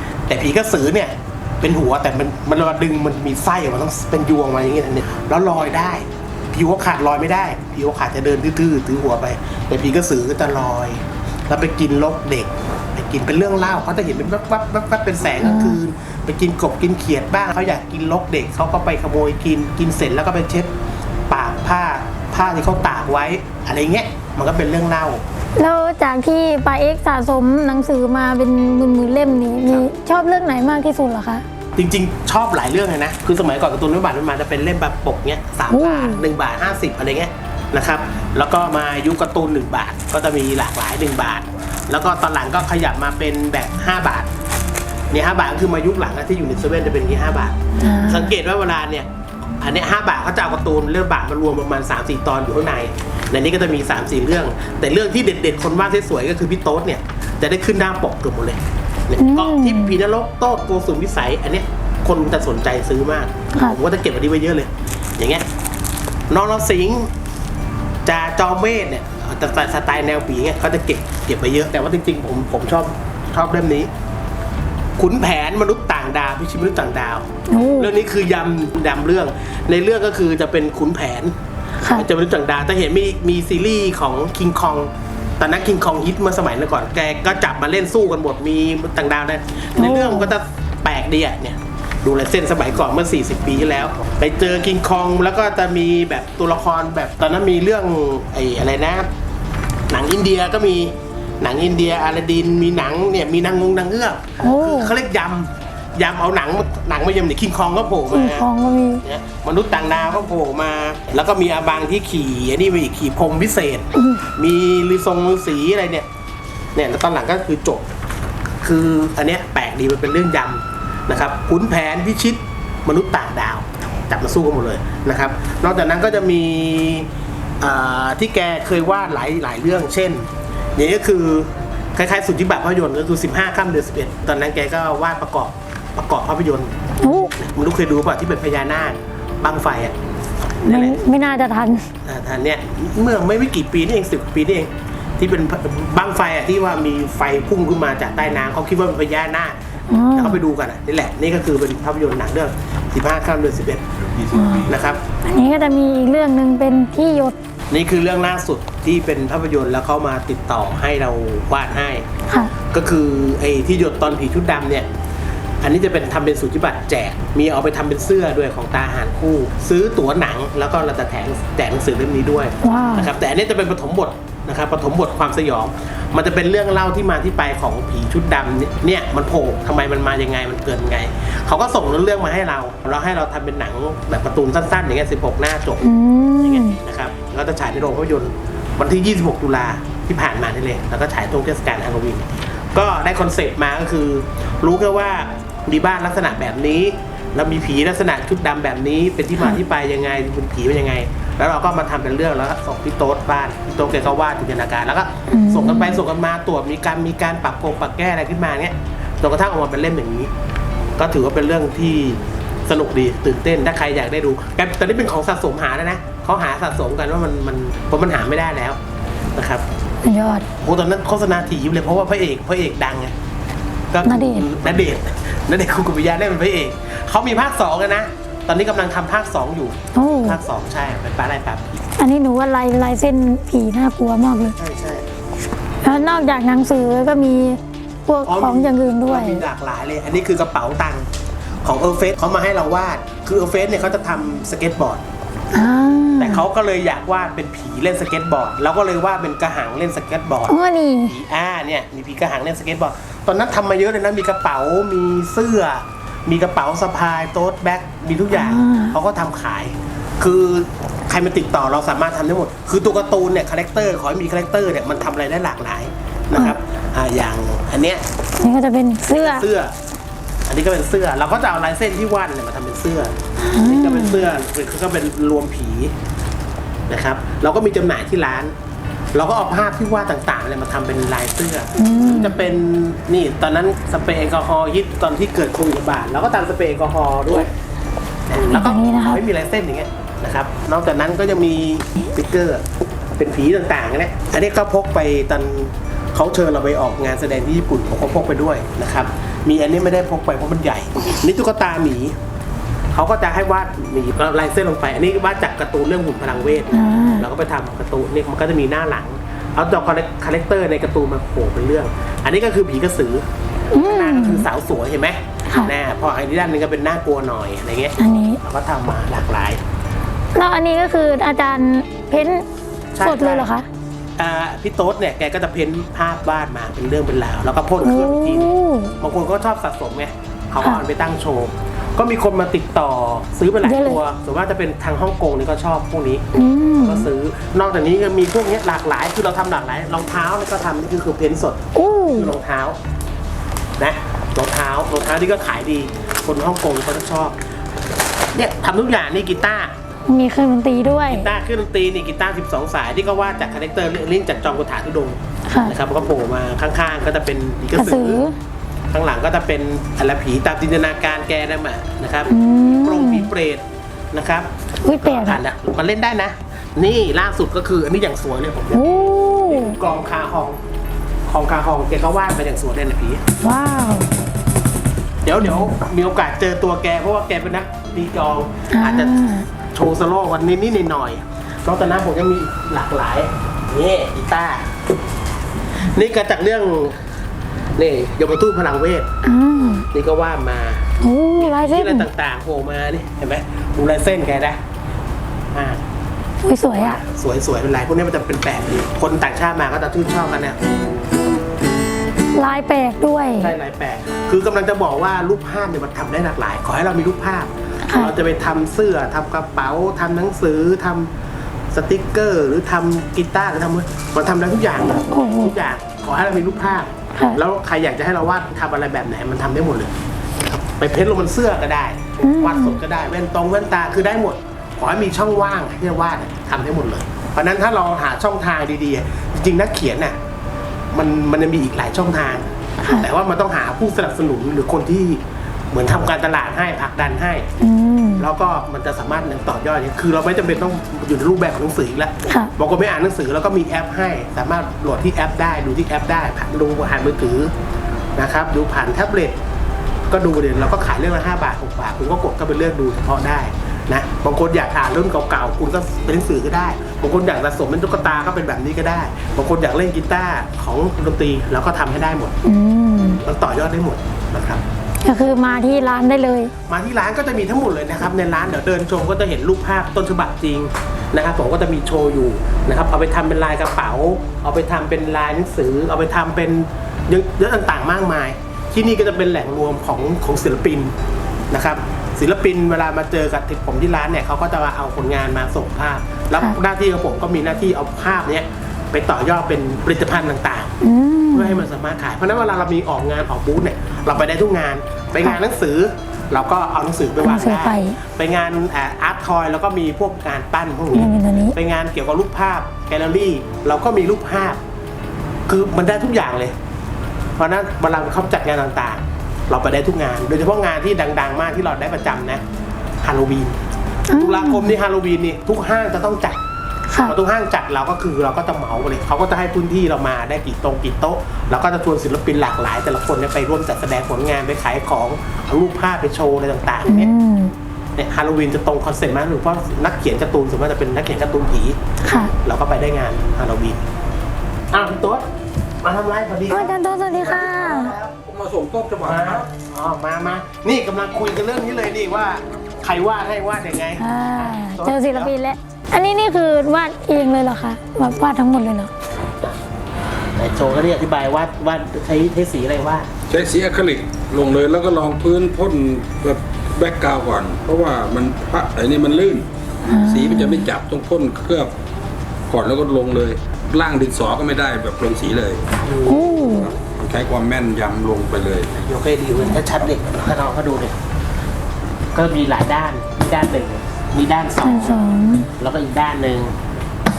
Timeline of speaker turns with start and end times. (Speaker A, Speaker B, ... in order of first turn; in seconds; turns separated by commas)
Speaker A: 0.3-20.7, Speaker B: 15.4-15.8, Speaker A: 21.3-25.2, Speaker B: 25.6-31.4, Speaker A: 31.8-44.3, Speaker B: 35.7-36.2, Speaker A: 45.1-49.1, Speaker B: 47.8-48.3, Speaker A: 49.6-65.5, Speaker B: 59.2-59.9, Speaker B: 63.5-63.8, Speaker A: 66.3-67.1, Speaker A: 68.1-73.9, Speaker A: 75.0-81.3, Speaker B: 77.5-77.9, Speaker B: 81.8-82.1, Speaker A: 81.9-99.1, Speaker B: 89.8-90.3, Speaker A: 99.9-108.5, Speaker B: 104.4-104.9, Speaker B: 108.1-109.0, Speaker A: 109.0-116.1, Speaker B: 113.9-114.2, Speaker A: 116.8-117.9, Speaker A: 118.6-127.1, Speaker A: 127.6-136.8, Speaker B: 137.0-137.3, Speaker A: 137.4-139.9, Speaker A: 140.6-141.0, Speaker B: 140.7-141.9, Speaker A: 142.1-149.6, Speaker B: 149.9-150.4, Speaker A: 150.2-153.9, Speaker B: 154.3-154.7, Speaker A: 154.6-155.1, Speaker B: 155.2-157.4, Speaker A: 157.7-162.1, Speaker B: 162.3-162.5, Speaker A: 162.7-164.9, Speaker A: 165.6-210.3, Speaker B: 172.6-173.1, Speaker B: 185.8-186.8, Speaker B: 205.3-206.0, Speaker A: 211.0-218.8, Speaker A: 219.3-219.7, Speaker B: 220.0-220.5, Speaker A: 220.6-223.1, Speaker A: 223.9-231.6, Speaker B: 224.1-224.5, Speaker B: 229.9-230.4, Speaker B: 232.0-234.6, Speaker A: 234.5-235.1, Speaker B: 235.8-239.4, Speaker A: 238.3-241.1, Speaker A: 241.6-245.0, Speaker B: 245.5-246.4, Speaker A: 246.2-268.0, Speaker B: 250.5-251.2, Speaker B: 258.3-259.0, Speaker B: 268.4-269.5, Speaker A: 269.1-269.7, Speaker A: 270.5-275.9, Speaker B: 273.4-274.2, Speaker A: 276.9-278.5, Speaker A: 279.1-287.5, Speaker B: 281.8-282.4, Speaker A: 288.3-292.6, Speaker B: 288.4-289.2, Speaker A: 293.2-302.1, Speaker A: 302.9-313.2, Speaker B: 306.7-307.3, Speaker B: 313.7-314.5, Speaker A: 313.8-319.6, Speaker B: 315.5-315.7, Speaker B: 318.0-318.4, Speaker B: 320.4-322.5, Speaker A: 322.9-323.5, Speaker B: 323.0-323.7, Speaker A: 324.2-336.3, Speaker B: 327.8-328.9, Speaker B: 333.6-334.0, Speaker B: 336.3-337.1, Speaker A: 336.8-342.8, Speaker B: 341.8-342.3, Speaker A: 343.8-347.4, Speaker A: 348.3-349.7, Speaker B: 350.1-351.3, Speaker A: 351.1-358.2, Speaker B: 355.5-355.8, Speaker B: 357.8-358.4, Speaker A: 358.9-370.6, Speaker B: 362.3-363.3, Speaker B: 364.8-365.4, Speaker B: 368.7-369.8, Speaker A: 371.3-373.2, Speaker B: 373.4-374.1, Speaker A: 375.2-384.7, Speaker B: 378.7-379.5, Speaker A: 385.8-387.0, Speaker A: 387.8-389.1, Speaker B: 389.2-389.9, Speaker A: 389.9-394.6, Speaker B: 391.0-392.1, Speaker A: 395.5-395.8, Speaker B: 396.4-397.0, Speaker A: 396.8-400.6, Speaker B: 402.3-403.5, Speaker A: 403.4-411.1, Speaker B: 407.9-408.1, Speaker A: 411.7-419.9, Speaker B: 415.1-415.5, Speaker B: 417.1-417.4, Speaker A: 420.5-430.1, Speaker B: 422.2-422.8, Speaker A: 430.9-437.5, Speaker B: 432.8-433.1, Speaker B: 437.6-438.3, Speaker A: 438.2-447.5, Speaker B: 442.3-442.5, Speaker A: 448.2-449.4, Speaker A: 450.1-462.4, Speaker B: 462.4-463.2, Speaker A: 463.2-464.6, Speaker B: 465.0-466.5, Speaker A: 466.7-480.9, Speaker A: 481.5-490.8, Speaker B: 490.8-491.6, Speaker A: 491.3-504.6, Speaker B: 497.2-498.0, Speaker B: 500.9-501.6, Speaker A: 505.5-506.5, Speaker A: 507.4-512.4, Speaker A: 513.0-513.6, Speaker B: 514.1-514.8, Speaker A: 514.1-516.4, Speaker B: 516.9-517.1, Speaker A: 517.0-527.1, Speaker B: 526.9-527.5, Speaker A: 528.0-533.8, Speaker B: 532.0-532.3, Speaker A: 534.7-535.3, Speaker A: 535.8-538.1, Speaker B: 536.5-538.0, Speaker C: 537.4-539.5, Speaker A: 539.0-545.3, Speaker B: 544.0-548.9, Speaker A: 550.4-553.1, Speaker C: 553.3-559.5, Speaker B: 559.9-560.7, Speaker C: 560.0-561.7, Speaker C: 562.5-565.6, Speaker A: 565.8-566.6, Speaker B: 566.1-566.7, Speaker C: 566.5-568.7, Speaker A: 568.7-571.0, Speaker A: 572.1-575.0, Speaker B: 574.6-575.5, Speaker A: 575.6-576.5